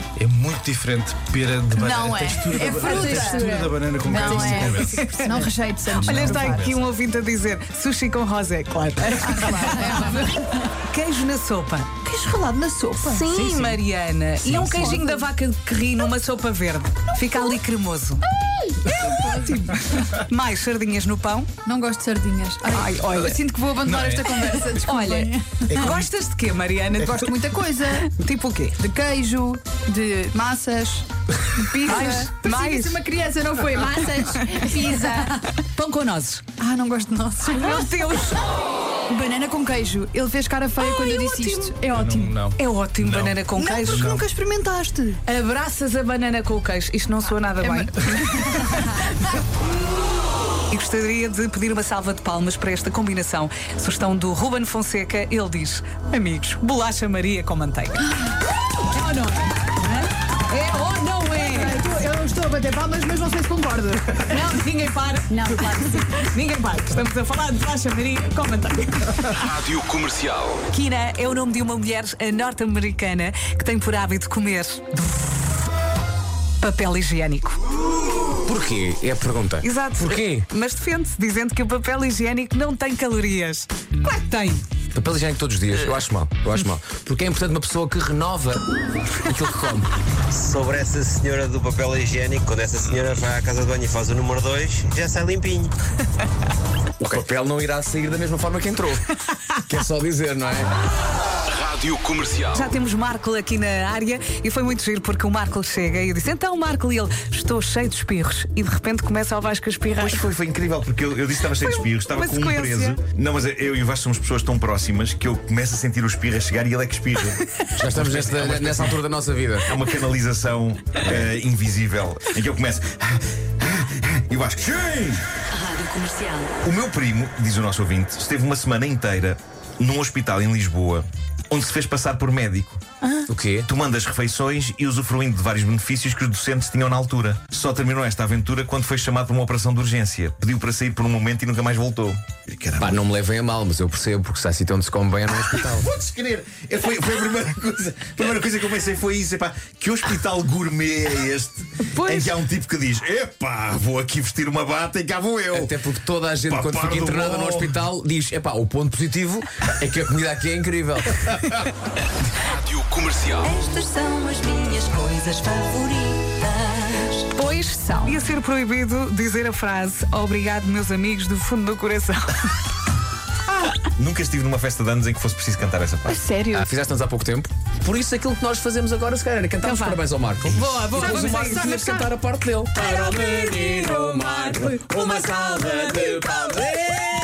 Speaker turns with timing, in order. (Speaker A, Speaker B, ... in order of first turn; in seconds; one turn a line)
Speaker A: 0.2-4.9
Speaker B: 1.8-6.7
Speaker C: 4.6-10.3
Speaker A: 6.0-6.7
Speaker B: 9.2-10.6
Speaker C: 10.8-11.9
Speaker B: 12.0-13.8
Speaker C: 13.1-18.2
Speaker B: 14.5-15.2
Speaker B: 18.9-19.7
Speaker C: 18.9-21.5
Speaker B: 21.6-26.0
Speaker C: 22.7-23.4
Speaker C: 24.0-27.3
Speaker B: 27.0-28.1
Speaker C: 28.0-28.8
Speaker B: 28.8-35.3
Speaker C: 31.8-33.0
Speaker C: 34.5-36.5
Speaker B: 36.6-38.2
Speaker C: 37.5-38.5
Speaker B: 39.1-42.4
Speaker C: 40.9-41.7
Speaker A: 41.9-43.4
Speaker C: 42.6-44.1
Speaker B: 43.6-45.2
Speaker A: 43.9-44.2
Speaker C: 45.2-49.0
Speaker B: 47.6-48.8
Speaker C: 50.7-58.2
Speaker C: 58.9-61.8
Speaker B: 61.3-64.7
Speaker C: 64.3-69.5
Speaker B: 65.3-66.3
Speaker D: 69.6-70.5
Speaker C: 70.7-75.5
Speaker C: 76.6-77.6
Speaker E: 78.5-80.5
Speaker C: 79.6-84.6
Speaker E: 84.9-88.6
Speaker E: 89.3-89.9
Speaker F: 90.3-95.7
Speaker E: 97.0-99.1
Speaker E: 99.7-100.7
Speaker D: 101.6-102.5
Speaker C: 102.5-110.2
Speaker G: 110.0-119.0
Speaker C: 111.6-113.0
Speaker E: 117.8-119.7
Speaker G: 119.7-125.3
Speaker H: 125.6-126.5
Speaker G: 126.6-132.8
Speaker E: 133.3-133.7
Speaker G: 133.7-143.0
Speaker E: 142.8-145.9
Speaker G: 145.6-155.8
Speaker C: 151.9-152.3
Speaker E: 155.5-161.3
Speaker G: 156.5-157.8
Speaker D: 162.7-163.2
Speaker H: 163.4-167.3
Speaker C: 167.3-172.5
Speaker G: 173.7-176.2
Speaker B: 176.2-176.7
Speaker E: 176.5-186.9
Speaker C: 179.6-180.0
Speaker C: 180.5-182.0
Speaker B: 180.9-181.9
Speaker B: 183.2-184.6
Speaker C: 183.6-186.7